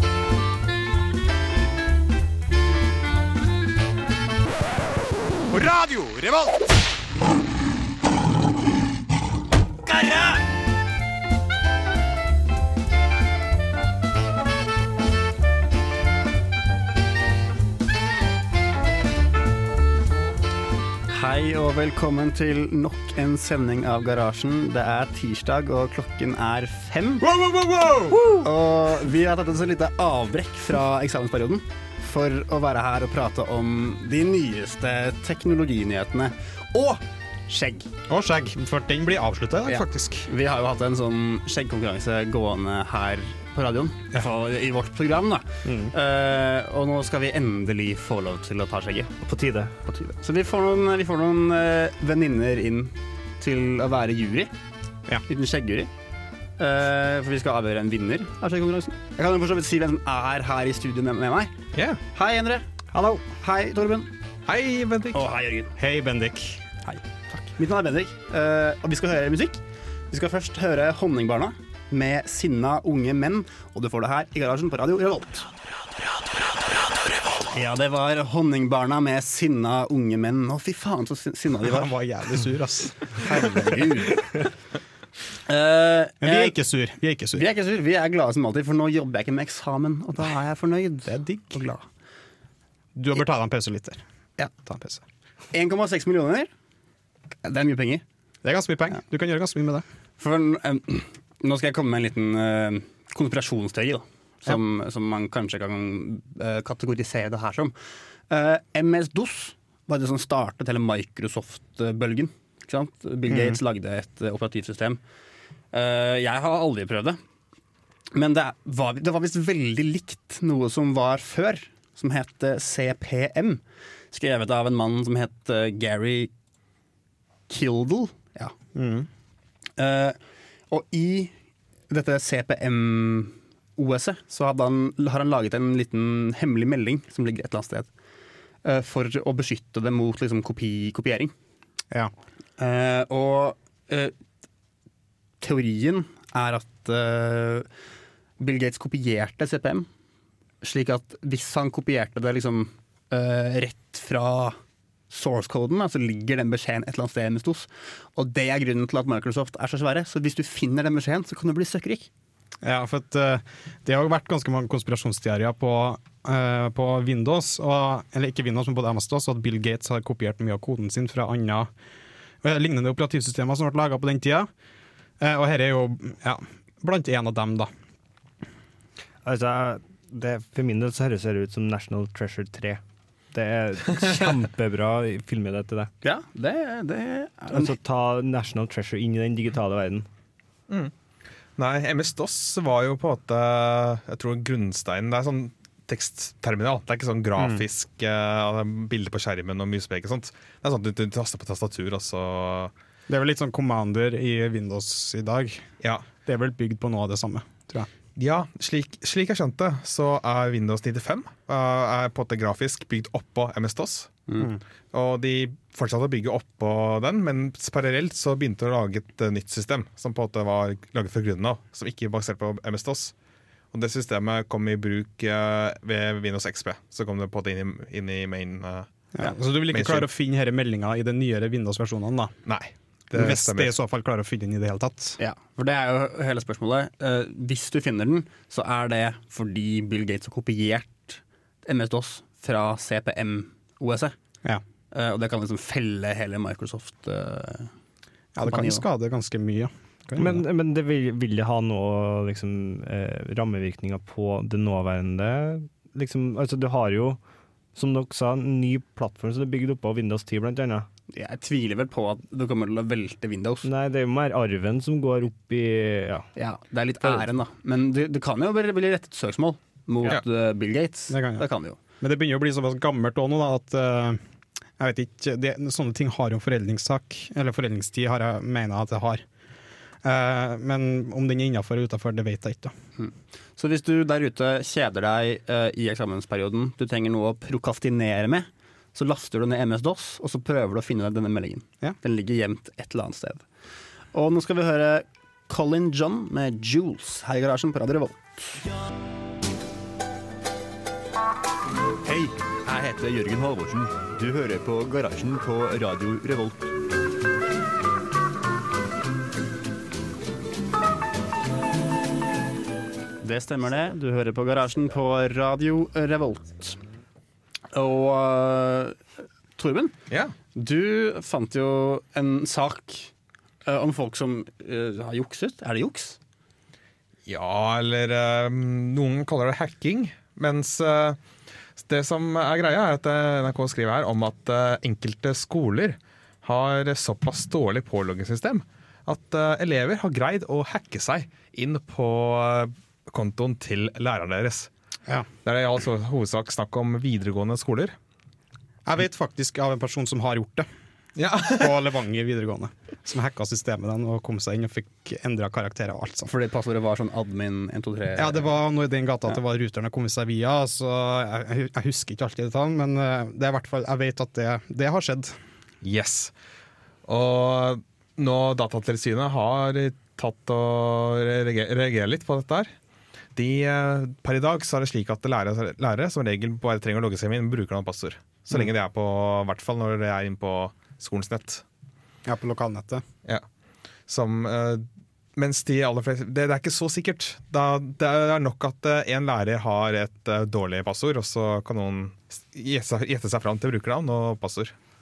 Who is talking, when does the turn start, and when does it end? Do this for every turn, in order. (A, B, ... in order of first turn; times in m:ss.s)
0:05.5-0:06.6 A
0:21.1-0:27.3 B
0:27.2-0:28.2 A
0:28.2-0:37.9 B
0:38.1-0:40.3 A
0:39.6-0:49.2 B
0:45.6-0:45.9 A
0:49.2-0:49.7 C
0:49.8-0:54.5 B
0:55.3-0:55.9 B
0:56.6-1:01.5 B
1:02.1-1:04.1 B
1:04.5-1:05.3 D
1:05.1-1:05.7 B
1:05.8-1:06.6 A
1:06.8-1:15.5 B
1:17.4-1:21.9 B
1:21.6-1:23.2 A
1:23.2-1:24.3 B
1:25.5-1:26.6 B
1:26.2-1:27.5 A
1:27.4-1:31.8 B
1:31.1-1:31.4 A
1:33.0-1:35.0 A
1:35.5-1:36.5 B
1:37.4-1:38.0 B
1:38.4-1:39.8 A
1:40.2-1:47.7 B
1:48.3-1:55.0 B
1:53.3-1:53.6 A
1:55.7-1:57.2 B
1:58.1-2:03.6 B
2:04.1-2:06.3 B
2:07.5-2:08.5 B
2:08.8-2:09.1 A
2:09.8-2:10.2 B
2:10.7-2:11.3 B
2:11.9-2:17.9 B
2:18.6-2:21.3 B
2:22.6-2:24.1 B
2:25.4-2:27.7 B
2:28.4-2:29.9 B
2:30.6-2:34.6 B
2:35.1-2:42.1 B
2:42.6-2:51.7 A
2:52.4-2:54.5 A
2:55.2-2:57.7 A
2:59.2-3:02.8 C
3:03.3-3:05.9 C
3:06.0-3:07.7 B
3:07.5-3:10.1 C
3:11.6-3:22.7 D
3:17.4-3:17.6 A
3:23.1-3:25.7 A
3:25.8-3:26.1 D
3:26.2-3:27.9 A
3:28.2-3:34.1 D
3:34.9-3:43.1 D
3:43.7-3:48.9 D
3:49.2-3:52.3 A
3:49.7-3:50.1 D
3:52.5-3:53.8 D
3:53.1-3:55.2 A
3:55.2-4:04.1 B
4:04.9-4:07.7 B
4:08.4-4:10.4 A
4:08.4-4:08.8 B
4:10.2-4:17.2 C
4:17.8-4:20.9 C
4:21.1-4:23.7 B
4:23.6-4:26.3 C
4:26.4-4:31.8 B
4:31.1-4:31.5 A
4:32.0-4:34.2 A
4:34.8-4:39.2 A
4:40.0-4:42.8 A
4:43.0-4:53.4 B
4:54.1-4:58.6 B
5:02.0-5:06.7 E
5:13.2-5:16.8 B
5:17.7-5:19.0 B
5:19.6-5:20.0 B
5:20.5-5:23.1 B
5:23.6-5:26.2 B
5:27.3-5:31.2 D
5:31.8-5:44.7 D
5:45.4-5:48.0 D
5:48.8-5:50.7 A
5:51.2-5:51.8 D
5:51.5-5:56.3 A
5:56.3-5:58.5 B
5:58.2-6:05.4 A
6:05.8-6:06.3 D
6:07.1-6:12.7 D
6:13.4-6:21.6 D
6:22.2-6:23.0 A
6:24.1-6:34.7 D